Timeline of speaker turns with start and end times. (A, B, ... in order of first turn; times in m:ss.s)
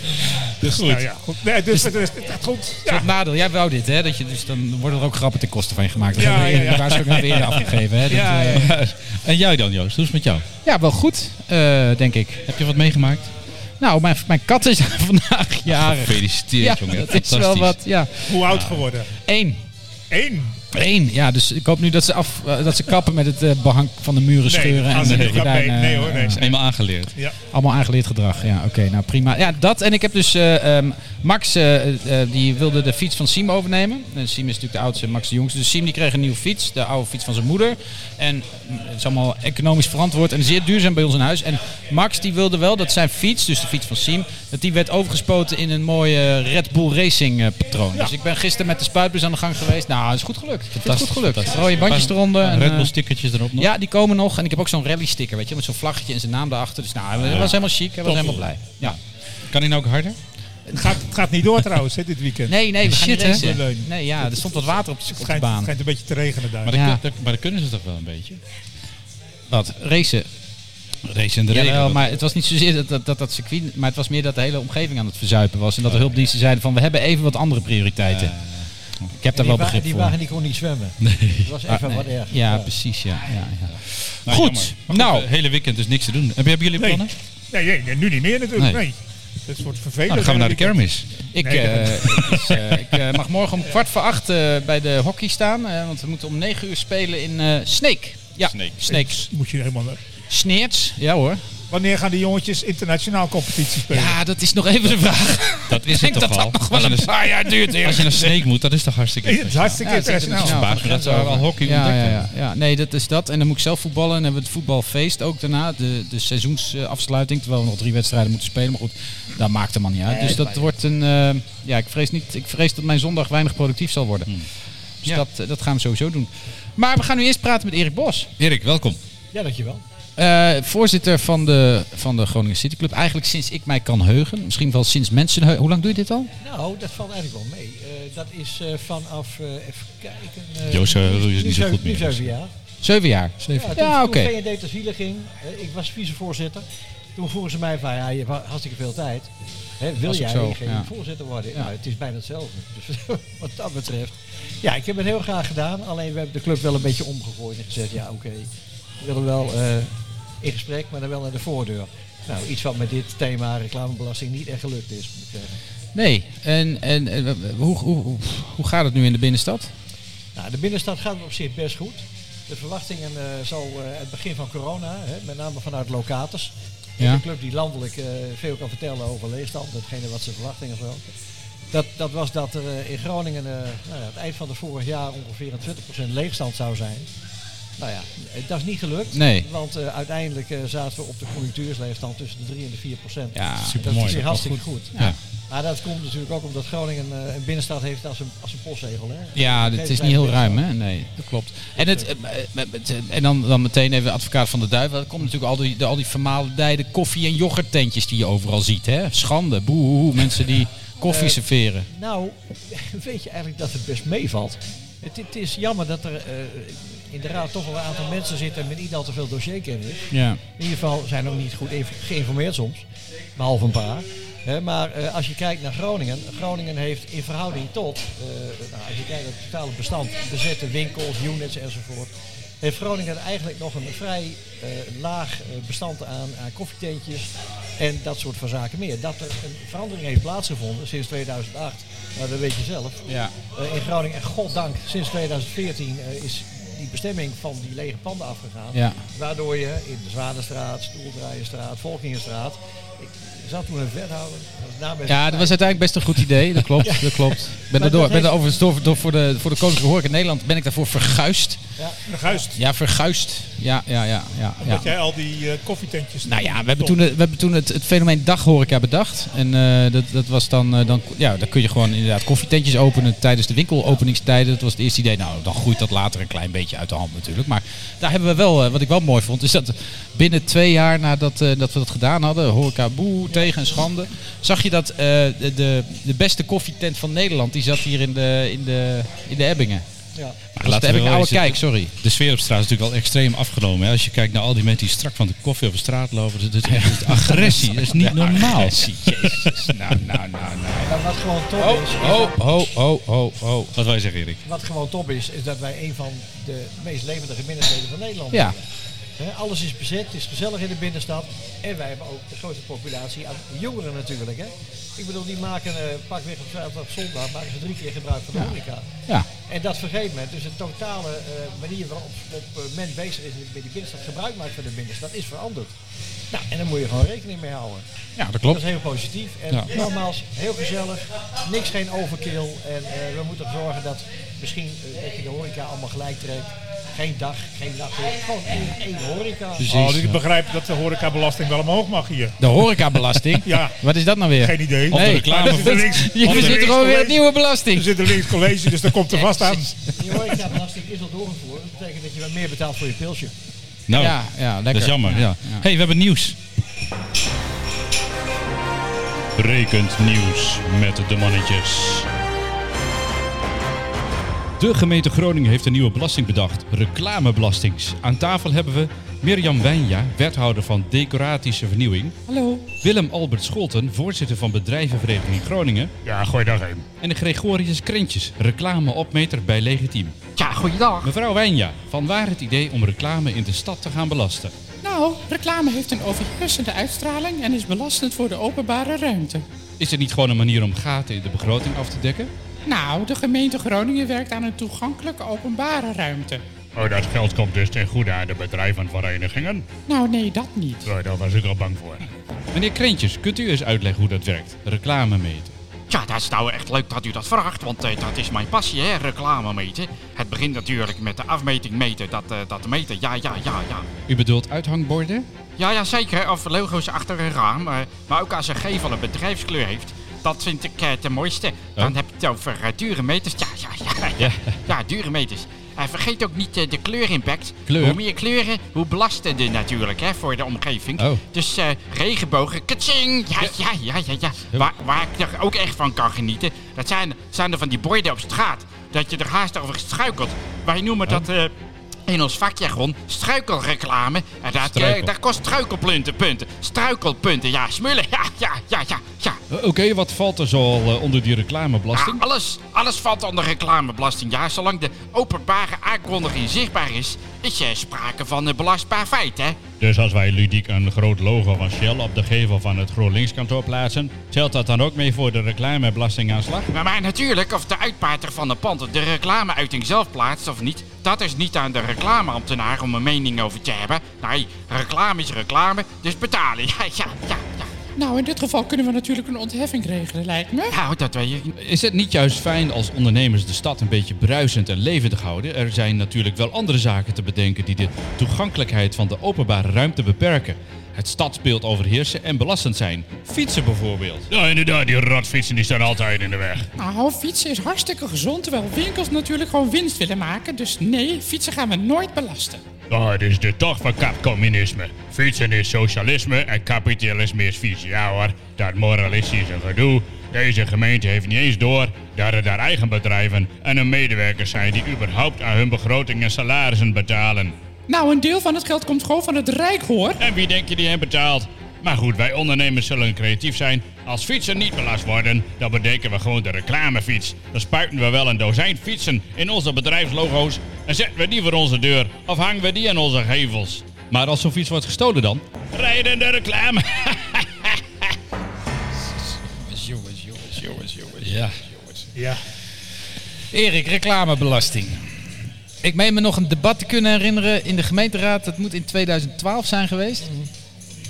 0:00.5-0:03.1 A
0:00.6-0:01.0 B
0:02.8-0:08.7 B
0:06.1-0:08.6 A
0:07.3-0:07.6 C
0:08.1-0:10.4 C
0:10.6-0:12.5 B
0:12.5-0:13.3 C
0:13.8-0:18.6 B
0:15.7-0:17.8 C
0:18.3-0:19.1 A
0:18.5-0:18.8 C
0:19.2-0:19.6 B
0:20.1-0:20.6 A
0:20.7-0:26.4 B
0:24.4-0:26.6 A
0:24.9-0:25.5 C
0:26.3-0:27.1 C
0:27.5-0:52.9 B
0:50.8-0:53.7 C
0:53.6-0:59.0 B
0:57.2-0:57.6 C
0:58.0-0:58.4 A
0:58.4-0:58.9 C
0:59.5-1:00.2 C
1:00.7-1:06.7 A
1:02.5-1:05.7 B
1:02.9-1:03.4 C
1:06.6-1:08.4 C
1:06.7-1:07.0 B
1:09.5-1:10.3 B
1:11.0-1:12.2 C
1:11.5-1:18.3 B
1:18.1-1:18.7 C
1:19.1-1:20.1 B
1:19.3-1:22.7 D
1:21.0-1:21.5 C
1:21.7-1:25.3 B
1:24.2-1:27.1 C
1:26.8-1:29.0 A
1:28.6-1:28.8 C
1:29.5-1:30.8 A
1:30.1-1:31.1 C
1:31.3-1:39.2 B
1:31.4-1:32.4 A
1:38.5-1:38.8 C
1:38.8-1:40.0 A
1:40.3-1:41.4 B
1:41.7-1:44.2 A
1:43.9-1:48.4 B
1:45.7-1:52.3 C
1:49.2-1:50.6 A
1:49.8-2:04.3 B
2:05.0-2:08.3 B
2:08.4-2:09.0 C
2:09.3-2:09.8 D
2:10.2-2:16.3 B
2:16.4-2:22.5 D
2:20.7-2:22.3 C
2:22.8-2:24.3 B
2:23.5-2:45.6 D
2:30.1-2:30.9 B
2:45.9-2:49.7 B
2:50.3-3:01.0 D
3:01.7-3:07.1 D
3:07.8-3:15.0 D
3:09.1-3:09.5 B
3:13.3-3:14.1 B
3:13.6-3:15.2 C
3:15.5-3:20.6 D
3:19.3-3:31.9 B
3:21.8-3:22.0 D
3:31.0-4:15.6 D
3:40.1-3:40.4 B
4:03.1-4:03.3 B
4:08.7-4:09.0 B
4:15.0-4:21.6 B
4:16.8-4:18.4 D
4:21.8-4:22.3 D
4:22.0-4:22.6 A
4:22.5-4:24.9 B
4:24.6-4:27.0 A
4:26.2-4:49.8 B
4:50.6-5:00.1 C
4:50.6-4:51.9 B
4:56.6-5:01.0 B
5:00.8-5:02.4 D
5:01.6-5:03.7 B
5:03.7-5:04.4 C
5:04.4-5:18.9 D
5:19.4-5:25.8 D
5:26.3-5:27.8 D
5:28.2-5:28.6 B
5:28.5-5:39.7 D
5:39.6-5:40.2 B
5:39.7-5:42.4 A
5:42.4-5:48.4 B
5:43.4-5:43.8 A
5:44.3-5:49.9 A
5:44.9-5:46.7 C
5:49.1-5:49.7 B
5:49.9-5:53.3 D
5:53.9-5:56.4 C
5:53.9-5:55.6 B
5:59.4-6:02.1 C
6:04.6-6:12.2 C
6:12.3-6:12.7 E
6:12.7-6:15.9 C
6:16.0-6:16.9 F
6:17.0-6:20.1 C
6:20.4-6:21.1 G
6:21.0-6:24.5 C
6:24.8-6:29.4 E
6:29.8-6:32.3 C
6:32.6-6:36.4 E
6:36.7-6:39.7 F
6:39.8-6:40.9 E
6:40.9-6:42.0 F
6:42.5-6:45.5 C
6:45.9-6:53.9 G
6:54.1-6:55.3 C
6:55.6-7:21.5 G
7:04.2-7:04.6 C
7:07.7-7:08.0 C
7:22.1-7:29.4 G
7:24.6-7:25.1 C
7:29.5-7:32.2 C
7:31.9-7:39.6 G
7:39.8-7:43.8 F
7:41.7-7:46.7 C
7:46.7-7:57.7 G
7:58.0-8:00.8 E
8:00.7-8:01.5 G
8:01.5-8:14.3 C
8:14.3-8:16.6 F
8:16.8-8:22.6 E
8:22.9-8:37.6 F
8:37.9-8:40.2 E
8:40.2-8:54.0 F
8:53.9-8:55.4 C
8:55.7-8:57.8 F
8:59.6-9:01.7 B
9:01.2-9:01.5 C
9:02.2-9:02.4 A
9:03.5-9:05.1 B
9:05.8-9:10.3 B